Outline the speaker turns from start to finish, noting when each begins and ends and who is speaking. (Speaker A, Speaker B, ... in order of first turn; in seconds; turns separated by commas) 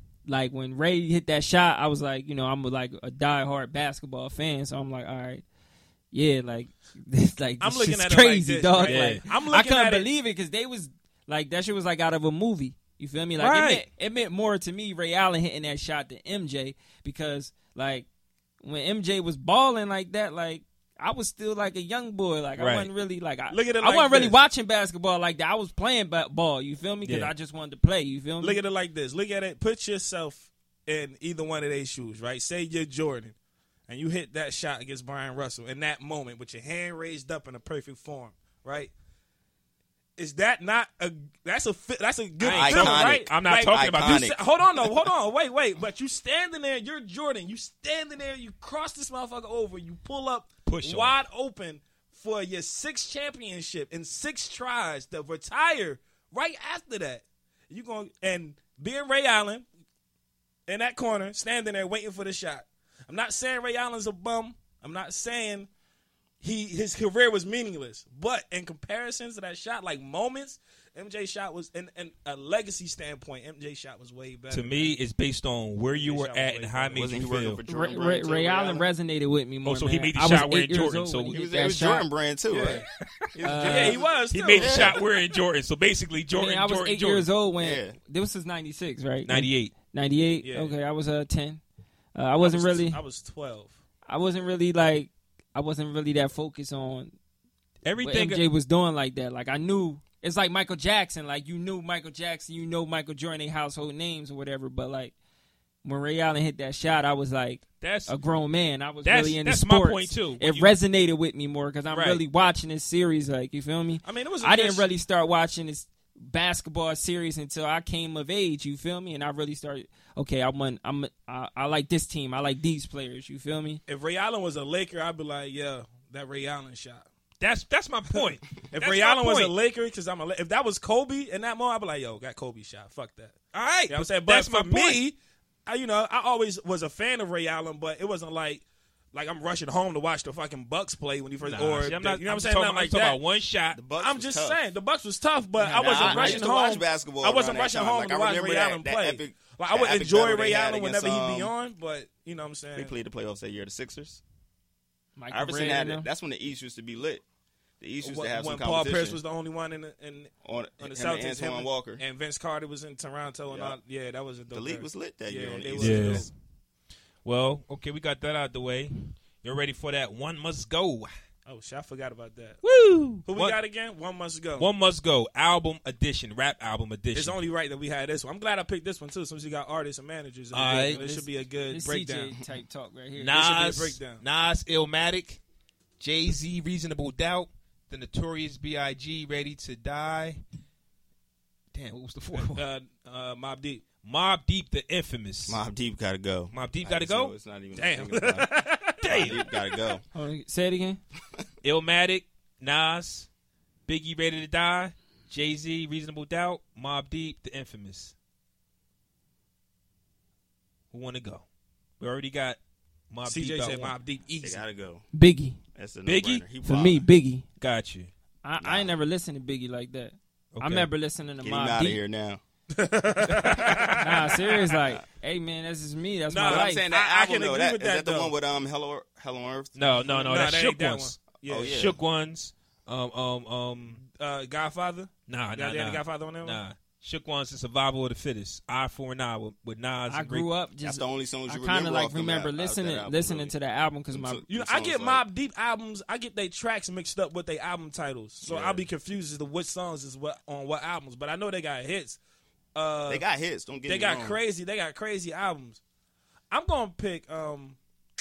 Speaker A: 0.3-5.4, Speaker A: 6.1-18.1, Speaker B: 7.6-10.1, Speaker C: 8.8-9.2, Speaker C: 13.4-13.8, Speaker A: 18.6-28.6, Speaker C: 22.6-22.9, Speaker B: 23.5-24.4, Speaker C: 27.1-27.3, Speaker B: 28.4-33.4, Speaker B: 33.9-38.9, Speaker B: 40.2-59.7, Speaker C: 42.4-44.3, Speaker D: 42.5-44.4, Speaker C: 50.7-51.2, Speaker B: 60.7-65.7, Speaker B: 66.4-75.0, Speaker C: 74.5-77.6, Speaker B: 75.9-77.2, Speaker D: 76.9-78.9, Speaker A: 77.7-82.0, Speaker C: 79.6-81.4, Speaker D: 81.3-85.0, Speaker B: 82.5-82.9, Speaker A: 83.4-84.0, Speaker B: 83.6-84.8, Speaker C: 84.3-87.3, Speaker A: 86.4-91.6, Speaker D: 87.6-88.0, Speaker C: 89.3-89.7, Speaker B: 90.4-90.7, Speaker A: 92.1-93.0, Speaker B: 92.4-93.8, Speaker A: 94.1-97.1, Speaker C: 97.8-98.4, Speaker A: 98.0-105.1, Speaker A: 105.8-123.8, Speaker C: 107.8-108.1, Speaker C: 109.0-110.7, Speaker C: 111.9-112.2, Speaker B: 114.0-114.9, Speaker B: 123.9-127.1, Speaker C: 127.4-129.6, Speaker B: 128.1-133.4, Speaker C: 133.5-135.0, Speaker B: 133.9-143.2, Speaker C: 141.4-143.8, Speaker D: 143.7-144.6, Speaker B: 144.0-152.9, Speaker A: 145.6-146.4, Speaker D: 145.8-151.5, Speaker D: 152.8-154.2, Speaker A: 155.2-156.1, Speaker D: 155.3-157.2, Speaker D: 157.8-159.2, Speaker B: 158.0-166.3, Speaker D: 160.4-162.0, Speaker D: 163.5-163.8, Speaker D: 164.5-166.3, Speaker C: 165.8-166.3, Speaker C: 167.2-171.1, Speaker B: 171.4-172.6, Speaker C: 172.6-173.6, Speaker B: 173.2-174.7, Speaker C: 174.6-177.4, Speaker B: 177.1-182.4, Speaker C: 180.5-181.0, Speaker A: 180.7-183.4, Speaker C: 183.2-185.4, Speaker B: 183.3-184.2, Speaker C: 186.0-190.4, Speaker C: 191.7-192.6, Speaker B: 192.3-193.8, Speaker C: 194.0-195.6, Speaker D: 195.5-200.0, Speaker C: 196.5-197.3, Speaker B: 197.7-199.6, Speaker C: 199.0-199.4, Speaker A: 200.1-201.0, Speaker C: 201.6-203.3, Speaker C: 203.9-208.1, Speaker C: 210.9-211.4, Speaker C: 212.0-212.6, Speaker C: 213.1-213.9, Speaker B: 213.2-214.6, Speaker D: 214.4-215.1, Speaker A: 215.1-215.6, Speaker D: 215.7-217.1, Speaker C: 216.1-216.4, Speaker A: 216.6-217.4, Speaker C: 217.6-218.1, Speaker A: 218.4-222.0, Speaker D: 218.6-218.9, Speaker C: 220.6-220.9, Speaker D: 221.4-222.4, Speaker B: 222.7-224.4, Speaker A: 224.0-226.8, Speaker B: 226.3-228.3, Speaker D: 226.4-229.8, Speaker C: 229.8-234.0, Speaker B: 230.1-231.8, Speaker D: 231.4-231.9, Speaker B: 234.0-236.6, Speaker C: 235.3-240.5, Speaker A: 240.1-244.4, Speaker D: 240.8-243.5, Speaker D: 244.1-245.2, Speaker B: 244.5-252.2, Speaker D: 248.4-248.8, Speaker B: 252.7-253.2, Speaker D: 253.1-254.4, Speaker B: 253.9-255.8, Speaker B: 256.5-257.8